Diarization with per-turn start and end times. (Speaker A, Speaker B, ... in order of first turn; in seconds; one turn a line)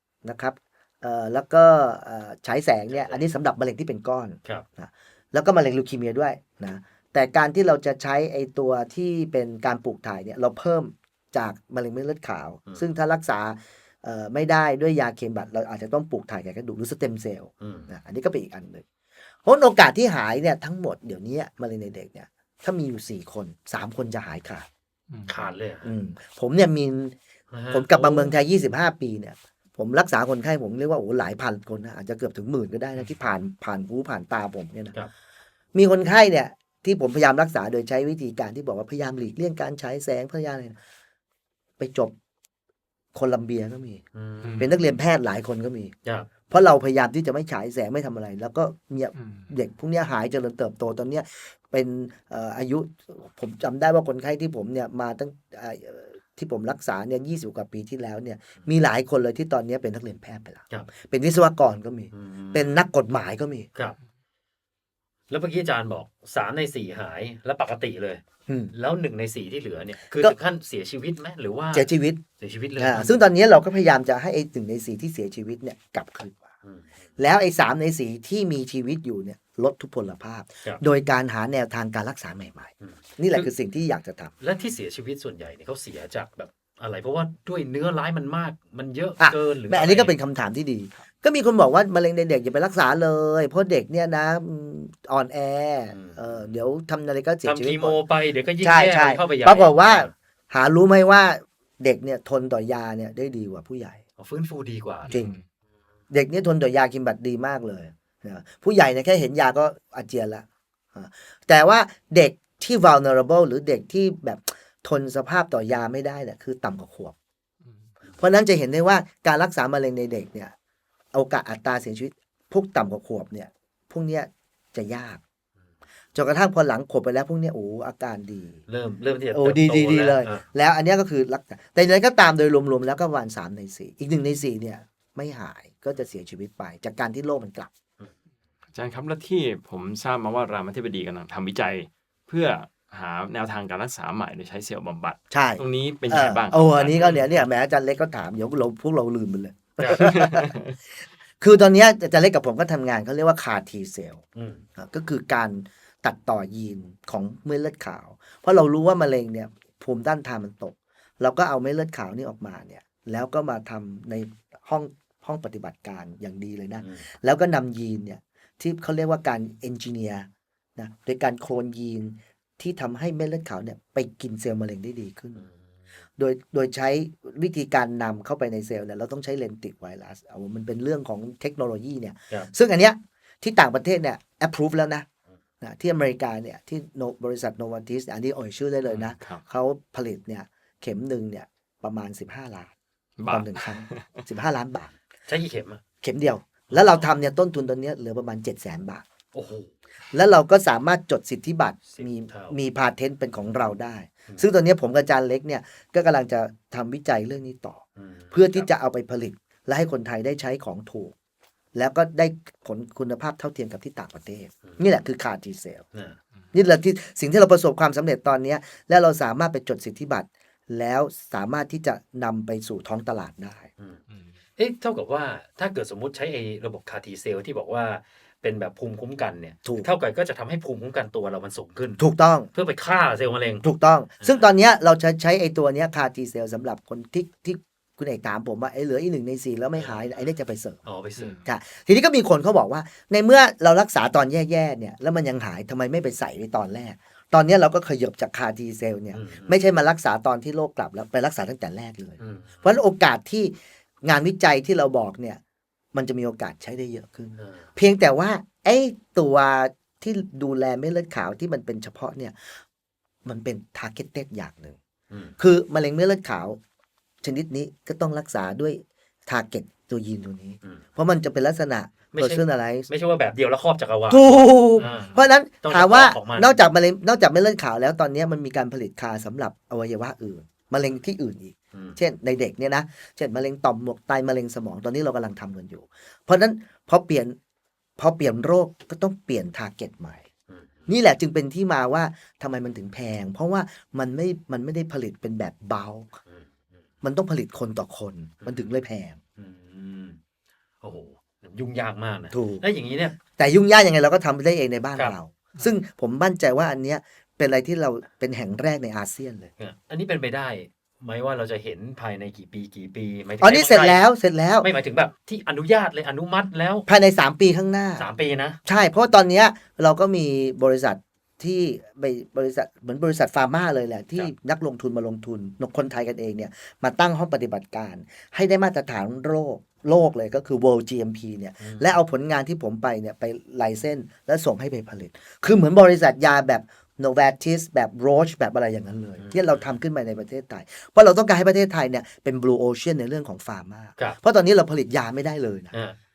Speaker A: 0.2-18.8
Speaker B: 2.9-3.2
Speaker B: 17.6-17.9
Speaker A: 19.4-24.6
Speaker C: 25.1-25.5
Speaker B: 25.3-25.9
Speaker A: 25.8-27.1
Speaker B: 27.5-28.3
Speaker A: 27.7-34.9
Speaker A: 35.7-40.8
Speaker A: 41.8-42.1
Speaker A: 43.1-44.0
Speaker B: 44.1-44.7
Speaker A: 44.6-45.9
Speaker A: 46.5-63.7
Speaker C: 49.2-49.5
Speaker B: 62.1-62.8
Speaker B: 65.3-71.9
Speaker A: 68.5-68.7
Speaker A: 71.7-72.2
Speaker B: 72.4-73.2
Speaker A: 72.8-76.5
Speaker A: 77.2-84.3
Speaker B: 82.8-83.5
Speaker B: 84.4-90.1
Speaker A: 89.2-98.0
Speaker B: 95.9-96.5
Speaker B: 97.4-100.1
Speaker A: 98.6-104.0
Speaker B: 104.2-105.1
Speaker C: 105.1-105.4
Speaker A: 105.1-105.3
Speaker A: 106.1-117.1
Speaker A: 118.2-120.5
Speaker A: 121.1-125.2
Speaker A: 126.1-128.6
Speaker B: 128.7-130.4
Speaker A: 129.3-137.7
Speaker C: 138.7-147.0
Speaker A: 145.3-150.5
Speaker B: 146.8-147.3
Speaker B: 149.8-150.1
Speaker C: 150.0-150.7
Speaker A: 151.4-154.2
Speaker B: 154.3-154.6
Speaker A: 154.8-175.5
Speaker B: 166.8-167.1
Speaker A: 176.2-185.1
Speaker A: 185.6-192.7
Speaker C: 188.9-189.4
Speaker C: 193.2-194.2
Speaker A: 193.3-194.9
Speaker B: 195.3-195.8
Speaker A: 196.0-199.0
Speaker B: 196.7-197.1
Speaker B: 199.3-199.7
Speaker A: 200.1-211.1
Speaker B: 201.9-202.6
Speaker B: 208.0-208.7
Speaker A: 211.7-215.8
Speaker A: 216.5-223.7
Speaker B: 224.6-232.0
Speaker A: 232.0-232.5
Speaker B: 232.5-233.6
Speaker A: 233.6-240.8
Speaker B: 234.2-234.4
Speaker B: 239.8-240.2
Speaker B: 240.8-241.4
Speaker A: 241.4-255.4
Speaker B: 249.1-249.6
Speaker B: 252.2-252.7
Speaker A: 255.9-262.6
Speaker B: 257.4-257.6
Speaker A: 263.2-264.8
Speaker B: 265.1-265.4
Speaker A: 265.4-266.6
Speaker A: 267.2-272.9
Speaker B: 272.1-276.6
Speaker A: 274.1-287.4
Speaker A: 288.0-290.2
Speaker B: 290.5-290.9
Speaker A: 290.9-296.1
Speaker A: 297.0-299.2
Speaker B: 299.4-300.2
Speaker B: 300.8-303.2
Speaker A: 302.3-302.6
Speaker A: 303.3-309.5
Speaker B: 309.6-314.0
Speaker A: 313.4-314.7
Speaker B: 314.6-316.9
Speaker A: 316.9-318.0
Speaker B: 318.0-318.6
Speaker A: 318.6-345.7
Speaker B: 331.6-332.0
Speaker B: 339.2-339.7
Speaker B: 345.7-346.0